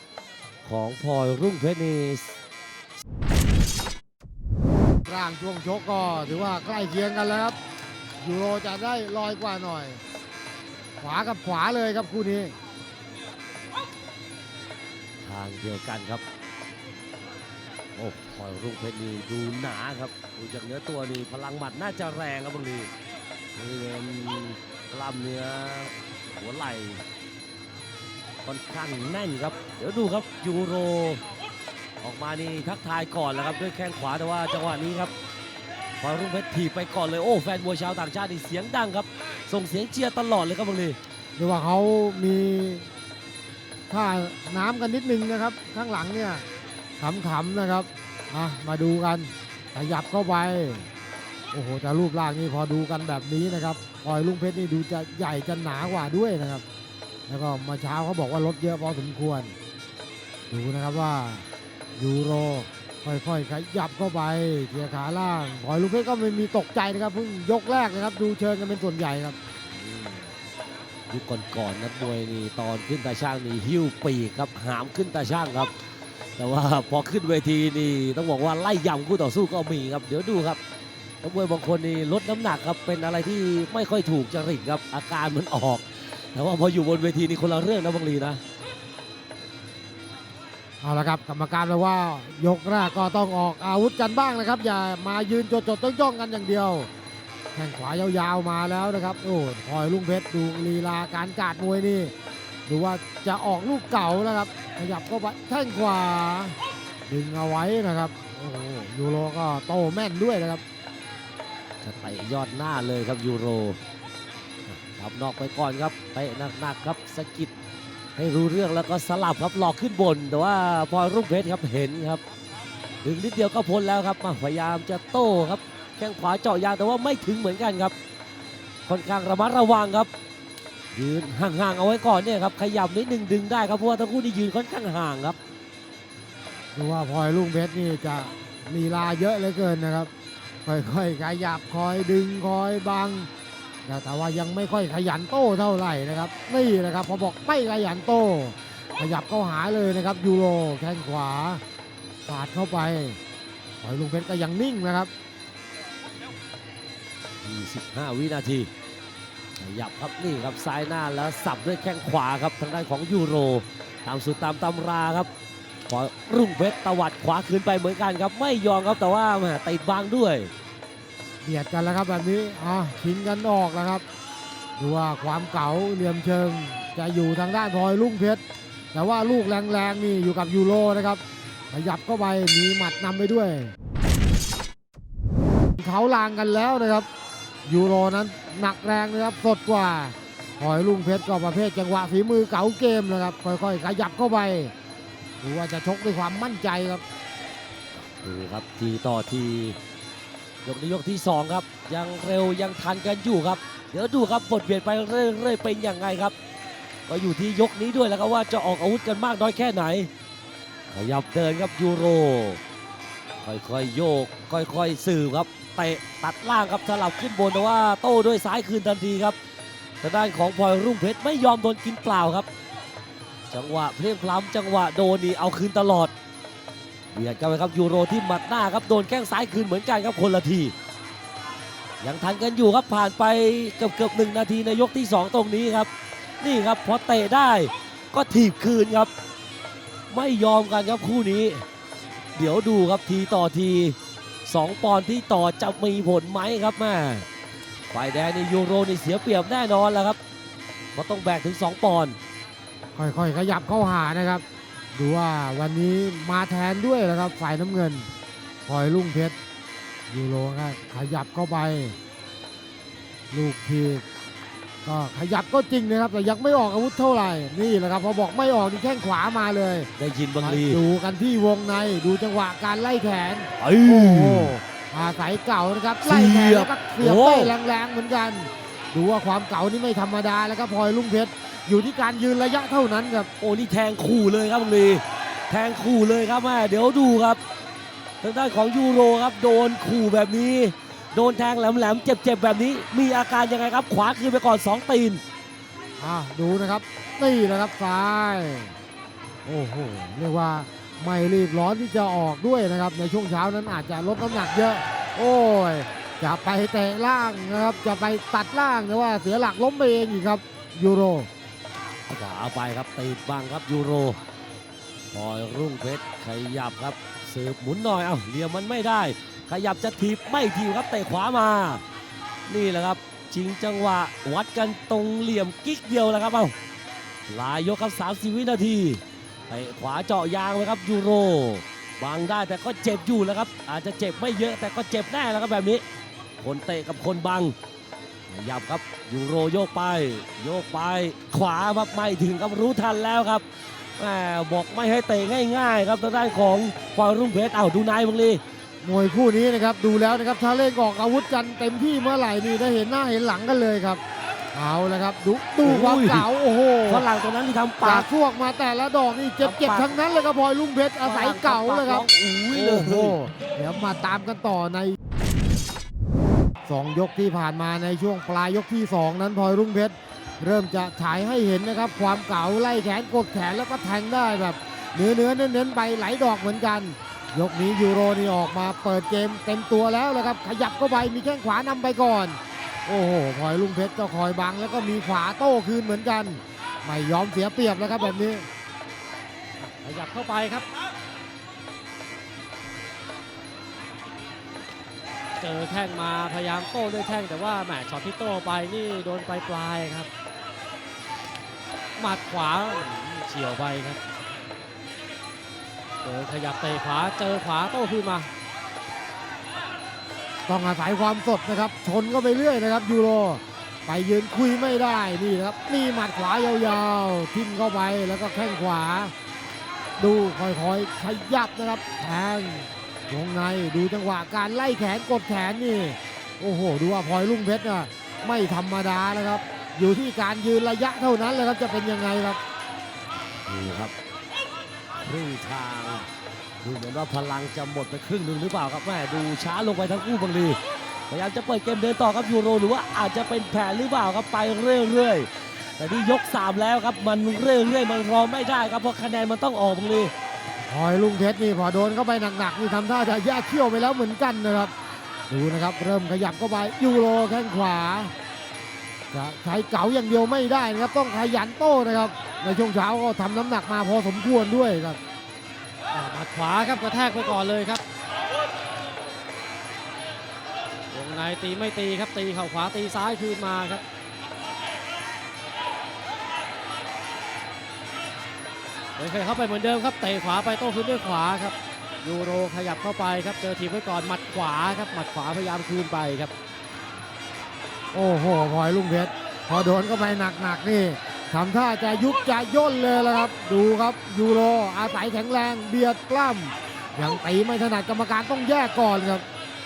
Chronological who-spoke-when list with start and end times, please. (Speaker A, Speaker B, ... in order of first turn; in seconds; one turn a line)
Speaker A: 0.7-2.4
Speaker B: 5.0-7.6
Speaker B: 8.2-10.0
Speaker B: 11.0-12.6
Speaker A: 15.2-16.2
Speaker A: 18.0-22.9
Speaker A: 23.6-27.0
Speaker A: 28.4-31.2
Speaker A: 32.0-35.1
Speaker A: 36.0-41.0
Speaker B: 41.4-42.9
Speaker B: 43.9-46.5
Speaker B: 47.0-50.9
Speaker B: 51.5-56.6
Speaker B: 57.3-59.5
Speaker B: 60.5-61.5
Speaker B: 62.0-69.4
Speaker A: 69.7-70.3
Speaker A: 71.1-75.7
Speaker A: 76.4-80.6
Speaker A: 81.2-88.4
Speaker B: 90.8-96.9
Speaker B: 97.5-102.1
Speaker B: 102.7-106.6
Speaker B: 107.1-110.6
Speaker A: 111.8-113.8
Speaker A: 114.7-117.5
Speaker A: 118.2-122.2
Speaker A: 123.0-127.9
Speaker A: 128.9-130.1
Speaker A: 130.9-135.4
Speaker B: 136.8-140.1
Speaker B: 140.7-143.3
Speaker B: 143.9-151.6
Speaker B: 152.3-153.2
Speaker B: 153.8-155.1
Speaker A: 157.4-158.7
Speaker A: 159.6-165.3
Speaker A: 165.9-170.5
Speaker B: 171.4-174.0
Speaker B: 174.8-178.4
Speaker B: 178.9-183.7
Speaker B: 185.8-187.1
Speaker B: 187.7-194.7
Speaker B: 195.4-197.0
Speaker A: 198.1-199.8
Speaker A: 200.6-206.3
Speaker A: 207.1-210.1
Speaker A: 210.9-212.6
Speaker A: 213.4-219.4
Speaker A: 220.0-222.5
Speaker A: 223.5-226.1
Speaker A: 227.1-230.8
Speaker A: 232.0-235.9
Speaker A: 236.4-239.1
Speaker A: 240.1-241.6
Speaker A: 242.4-247.3
Speaker A: 247.9-250.2
Speaker A: 250.9-252.2
Speaker B: 253.0-254.4
Speaker B: 255.0-258.1
Speaker B: 258.7-259.4
Speaker B: 260.1-262.0
Speaker B: 263.3-264.1
Speaker B: 264.9-269.9
Speaker A: 270.0-270.8
Speaker B: 270.4-283.3
Speaker A: 273.6-274.6
Speaker A: 276.1-277.6
Speaker A: 283.4-287.4
Speaker A: 288.2-295.2
Speaker B: 296.0-298.8
Speaker B: 299.4-311.3
Speaker A: 312.1-314.2
Speaker A: 315.1-321.8
Speaker A: 322.5-326.5
Speaker A: 327.3-335.8
Speaker A: 336.4-337.6
Speaker A: 338.3-343.4
Speaker A: 344.0-348.4
Speaker B: 348.8-354.0
Speaker B: 354.5-357.1
Speaker A: 355.6-356.3
Speaker A: 356.9-358.1
Speaker B: 357.8-365.0
Speaker A: 359.4-360.0
Speaker A: 361.0-363.2
Speaker B: 366.7-388.5
Speaker C: 389.6-390.7
Speaker C: 395.4-400.1
Speaker C: 402.0-404.0
Speaker C: 406.0-408.3
Speaker B: 410.5-419.1
Speaker B: 420.0-432.4
Speaker A: 433.5-433.9
Speaker A: 435.0-436.1
Speaker A: 436.6-440.6
Speaker A: 441.1-450.1
Speaker B: 450.7-454.7
Speaker B: 455.3-458.1
Speaker B: 459.1-465.0
Speaker C: 465.9-467.8
Speaker C: 470.9-473.8
Speaker C: 479.0-486.3
Speaker B: 487.9-499.2